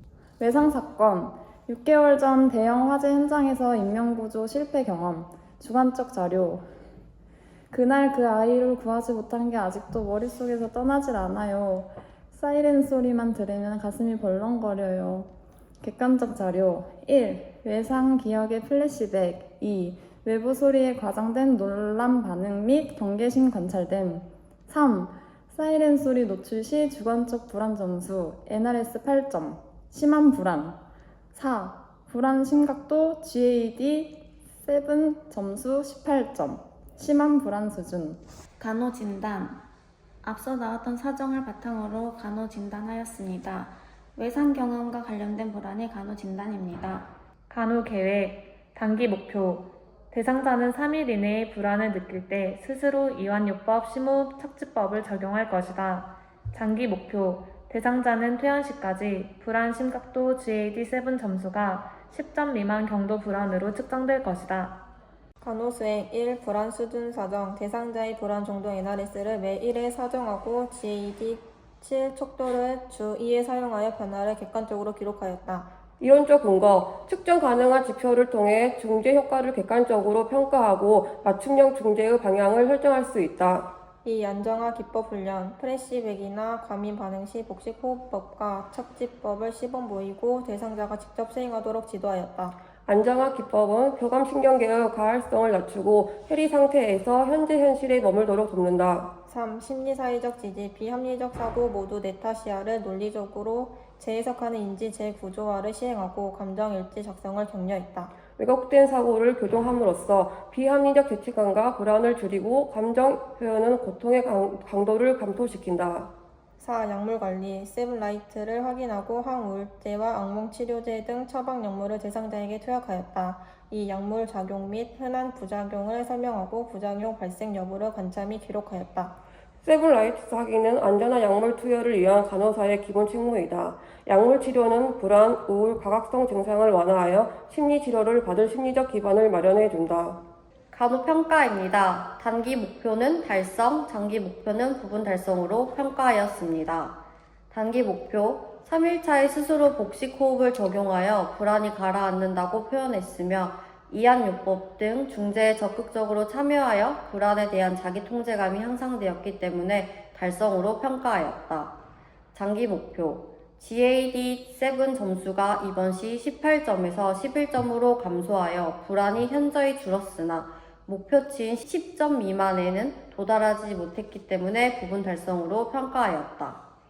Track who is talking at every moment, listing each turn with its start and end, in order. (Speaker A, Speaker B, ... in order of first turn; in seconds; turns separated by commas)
Speaker A: 0.4-6.6, Speaker A: 7.7-15.3, Speaker A: 15.8-30.8, Speaker A: 31.3-38.2, Speaker B: 38.6-39.6, Speaker B: 40.2-47.1, Speaker C: 47.5-64.8, Speaker D: 65.4-75.7, Speaker E: 76.0-83.7, Speaker D: 84.0-92.6, Speaker E: 92.8-99.1, Speaker D: 99.3-108.1, Speaker E: 108.3-116.1, Speaker D: 116.6-129.2, Speaker E: 129.6-140.2, Speaker F: 140.7-147.0, Speaker F: 147.5-161.7, Speaker F: 162.3-176.6